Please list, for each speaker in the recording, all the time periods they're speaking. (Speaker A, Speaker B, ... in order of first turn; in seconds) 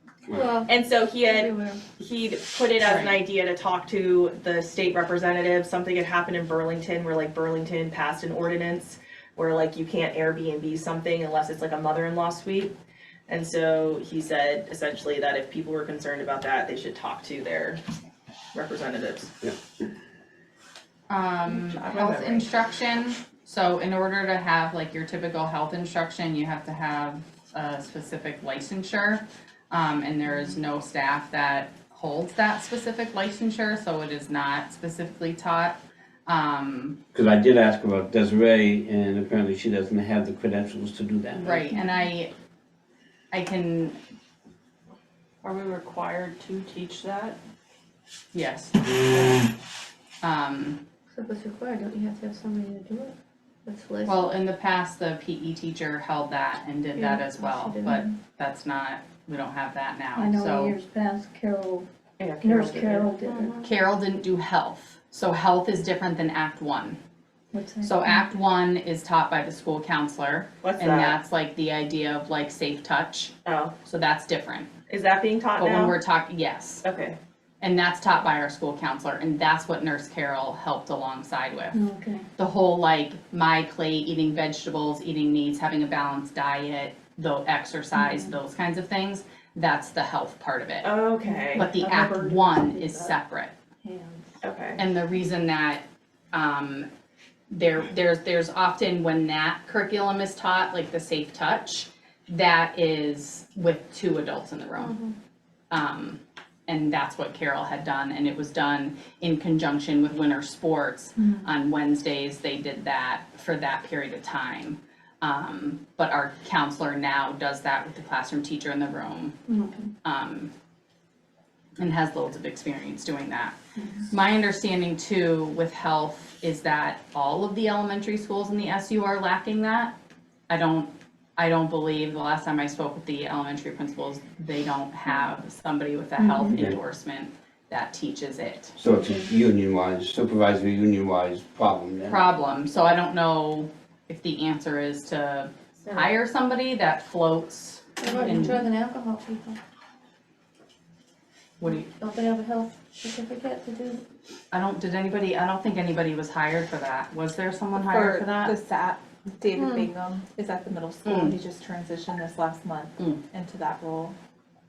Speaker A: 0.3-0.7, 1.2-1.8, 51.1-54.3, 56.9-58.1, 60.1-61.9, 62.4-63.7, 67.5-68.2, 81.7-82.2, 91.3-92.3, 93.8-94.2, 104.8-105.2, 111.2-111.4, 119.5-119.9, 136.2-136.5, 148.0-149.6, 151.6-154.0, 159.5-159.9
Speaker B: 0.7-12.7, 13.3-17.8, 18.5-19.3, 21.7-22.4, 62.2-63.1, 70.6-71.2, 73.4-73.7, 74.9-76.0, 76.8-77.2, 90.8-91.7, 94.4-94.8
Speaker C: 2.8-3.2, 21.1-37.0, 41.3-42.3, 43.3-44.0, 48.3-49.3, 50.2-50.8, 54.0-60.8, 63.6-67.0, 67.8-73.3, 73.8-74.7, 75.6-76.8, 77.6-81.8, 82.4-90.9, 91.5-93.5, 94.8-96.9, 97.5-105.0, 105.7-119.4, 120.0-120.5, 121.8-123.5, 124.1-129.9, 130.5-138.8, 142.1-148.6, 151.6-151.9, 154.5-158.5, 161.0-161.3
Speaker D: 37.1-41.6, 136.5-136.8, 138.8-142.2
Speaker E: 45.4-47.4
Speaker F: 157.7-164.2